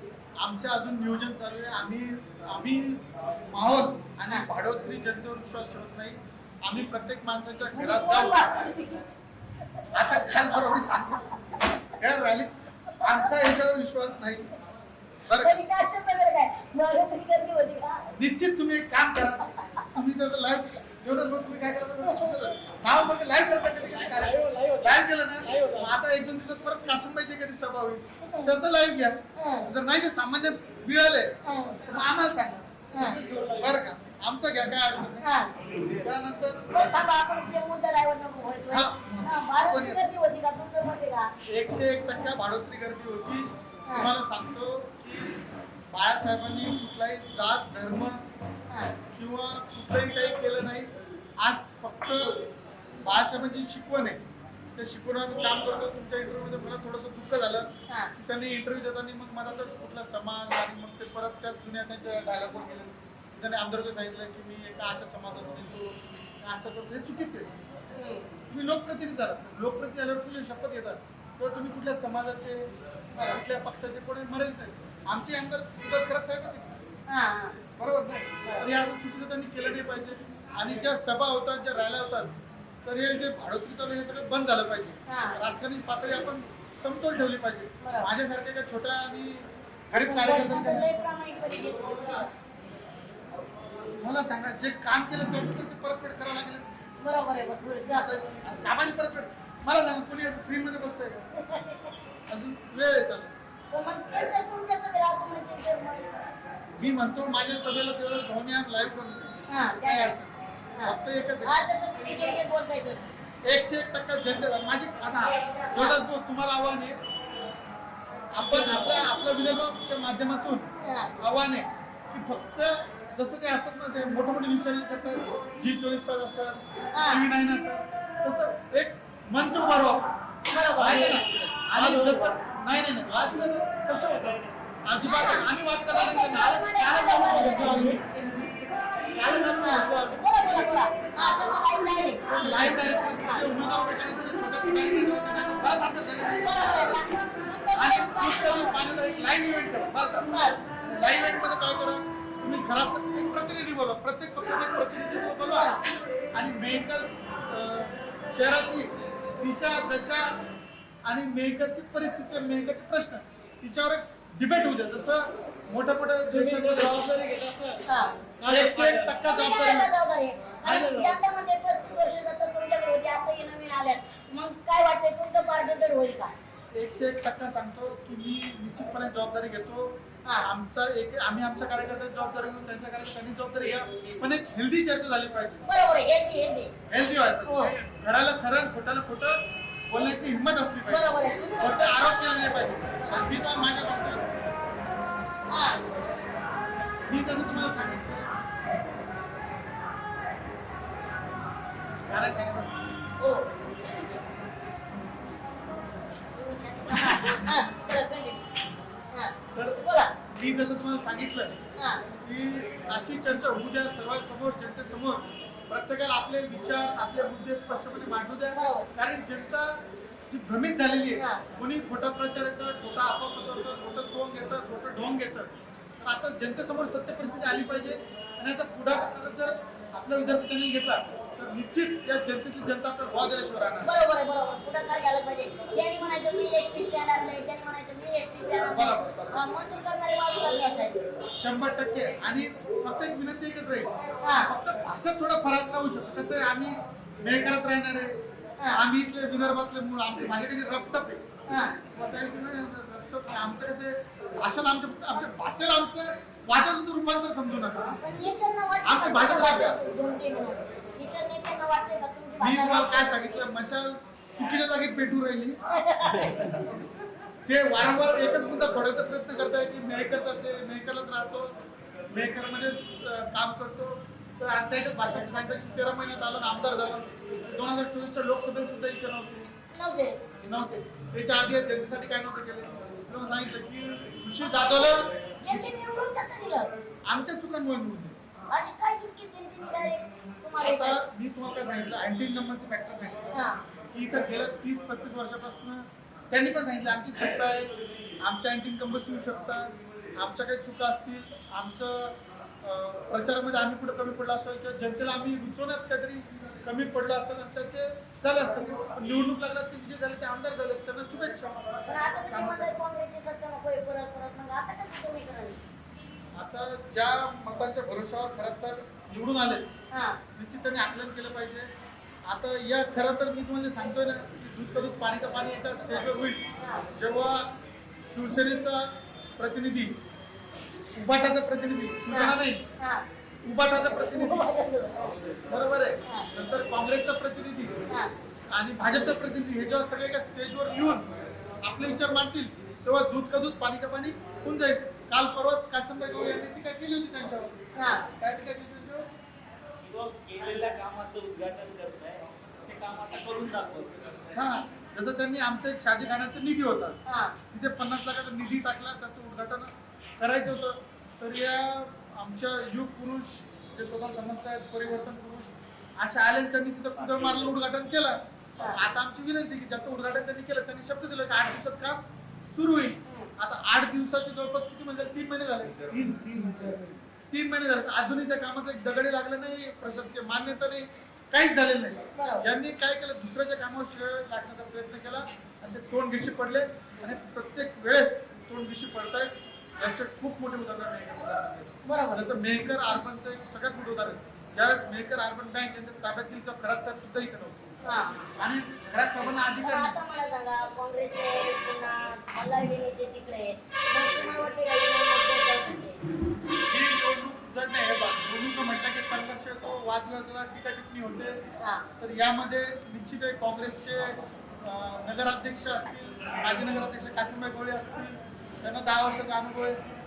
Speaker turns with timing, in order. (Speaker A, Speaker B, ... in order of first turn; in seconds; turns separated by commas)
Speaker A: 0.4-8.5, Speaker B: 7.7-9.0, Speaker A: 9.9-14.5, Speaker B: 13.0-13.3, Speaker A: 15.3-15.6, Speaker B: 15.3-18.1, Speaker A: 18.1-32.8, Speaker B: 22.0-22.5, Speaker C: 24.0-25.9, Speaker B: 28.2-28.5, Speaker B: 29.4-29.7, Speaker B: 31.4-31.8, Speaker B: 32.9-33.2, Speaker C: 33.0-33.7, Speaker A: 33.6-35.4, Speaker B: 35.2-35.5, Speaker A: 36.0-37.0, Speaker B: 36.7-41.3, Speaker A: 38.7-40.1, Speaker A: 41.5-45.4, Speaker A: 45.9-48.2, Speaker A: 49.1-50.9, Speaker A: 51.4-52.4, Speaker A: 53.0-54.2, Speaker A: 54.8-67.5, Speaker B: 68.0-68.3, Speaker A: 68.5-76.9, Speaker B: 73.1-73.4, Speaker B: 77.1-77.6, Speaker A: 77.7-82.3, Speaker A: 82.8-92.3, Speaker B: 85.1-85.4, Speaker B: 87.8-88.1, Speaker B: 90.0-92.3, Speaker A: 93.3-96.9, Speaker B: 97.0-98.1, Speaker A: 97.8-101.3, Speaker B: 101.4-101.9, Speaker A: 102.3-103.3, Speaker B: 103.7-106.1, Speaker A: 106.8-112.3, Speaker B: 109.5-110.2, Speaker B: 110.8-113.1, Speaker A: 113.4-117.0, Speaker A: 118.3-130.1, Speaker B: 118.5-118.9, Speaker B: 120.8-121.1, Speaker B: 126.9-127.3, Speaker B: 130.4-131.2, Speaker A: 130.8-137.9, Speaker C: 130.8-132.4, Speaker C: 133.1-133.4, Speaker B: 135.0-138.0, Speaker C: 137.3-140.7, Speaker B: 139.6-142.4, Speaker A: 142.3-147.0, Speaker B: 143.2-143.4, Speaker B: 146.4-148.8, Speaker A: 147.8-155.8, Speaker B: 150.3-151.0, Speaker B: 155.5-155.8, Speaker A: 156.3-160.4, Speaker A: 161.1-167.1, Speaker C: 166.3-169.2, Speaker B: 167.9-168.1, Speaker A: 168.5-169.9, Speaker B: 169.2-176.4, Speaker C: 170.6-171.2, Speaker A: 176.8-185.7, Speaker B: 185.7-186.7, Speaker A: 186.9-191.1, Speaker B: 187.5-187.8, Speaker B: 190.9-192.2, Speaker A: 191.6-194.3, Speaker B: 193.0-193.3, Speaker B: 195.5-195.8, Speaker A: 197.1-198.3, Speaker A: 202.1-202.9, Speaker B: 203.2-203.5, Speaker B: 206.3-208.4, Speaker A: 206.9-207.5, Speaker B: 209.1-210.1, Speaker A: 209.5-211.6, Speaker B: 211.8-212.1, Speaker A: 212.2-233.9, Speaker B: 218.5-218.9, Speaker B: 221.2-221.4, Speaker B: 233.8-241.0, Speaker A: 238.7-239.4, Speaker A: 241.4-251.2, Speaker B: 244.2-244.5, Speaker B: 251.5-251.7, Speaker A: 251.9-258.0, Speaker B: 258.0-263.1, Speaker A: 258.8-259.8, Speaker A: 262.4-265.6, Speaker B: 265.7-266.6, Speaker A: 267.5-271.5, Speaker A: 272.1-279.5, Speaker B: 279.7-280.2, Speaker A: 280.4-285.1, Speaker B: 284.4-286.7, Speaker A: 287.1-288.2, Speaker B: 288.5-291.0, Speaker A: 290.6-293.4, Speaker B: 293.3-293.6, Speaker A: 293.9-312.7, Speaker B: 311.9-315.6, Speaker A: 316.4-319.7, Speaker B: 319.9-320.2, Speaker A: 320.4-321.7, Speaker A: 322.3-327.5, Speaker B: 326.6-326.9, Speaker A: 328.1-330.0, Speaker A: 330.9-332.7, Speaker B: 332.1-333.1, Speaker A: 333.4-334.5, Speaker B: 334.1-335.2, Speaker A: 335.5-337.8, Speaker A: 338.5-341.1, Speaker A: 341.6-349.1, Speaker B: 347.8-348.1, Speaker C: 349.8-354.4, Speaker A: 354.3-357.0, Speaker B: 357.1-357.4, Speaker A: 357.5-375.8, Speaker C: 375.8-377.0, Speaker A: 377.3-397.8, Speaker B: 382.1-382.5, Speaker B: 391.9-392.2, Speaker B: 397.8-398.2, Speaker A: 398.4-399.9, Speaker B: 399.6-406.0, Speaker A: 406.7-411.4, Speaker A: 412.0-419.8